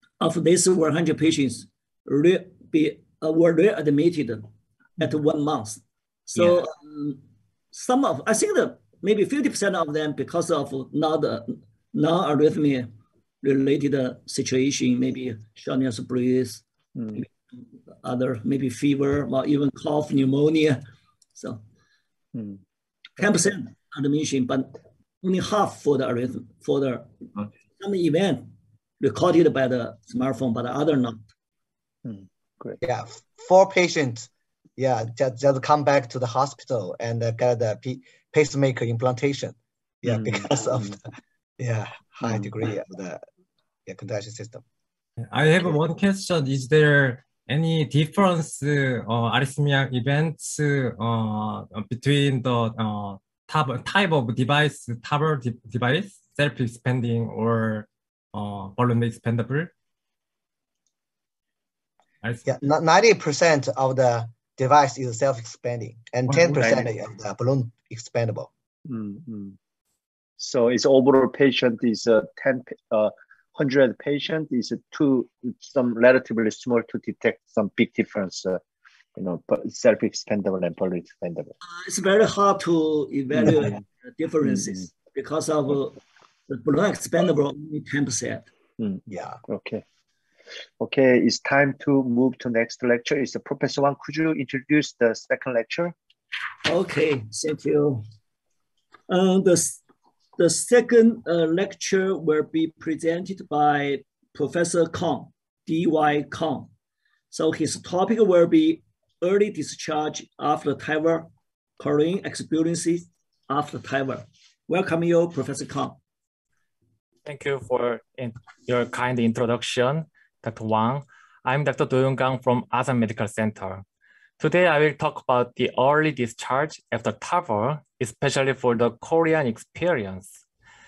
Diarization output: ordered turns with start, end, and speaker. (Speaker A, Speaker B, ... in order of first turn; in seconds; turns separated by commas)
Speaker A: 0.2-4.5, Speaker A: 5.0-12.9, Speaker A: 13.4-16.6, Speaker B: 16.9-17.2, Speaker A: 18.0-20.8, Speaker A: 21.4-21.6, Speaker B: 22.3-22.6, Speaker A: 23.2-27.1, Speaker A: 27.8-31.3, Speaker B: 32.0-32.8, Speaker C: 32.8-41.0, Speaker B: 40.1-41.0, Speaker C: 41.6-43.2, Speaker B: 42.2-42.5, Speaker C: 43.9-44.6, Speaker D: 45.3-59.7, Speaker C: 62.5-68.5, Speaker B: 66.3-66.9, Speaker B: 68.8-69.5, Speaker B: 70.4-78.6, Speaker B: 79.2-81.5, Speaker A: 81.7-86.0, Speaker B: 83.5-83.8, Speaker A: 86.5-88.5, Speaker B: 88.8-89.8, Speaker C: 89.1-89.4, Speaker B: 90.8-95.9, Speaker A: 96.6-98.0, Speaker A: 99.1-99.8, Speaker A: 100.4-106.7, Speaker A: 107.3-116.0, Speaker E: 117.2-123.8, Speaker E: 124.4-130.4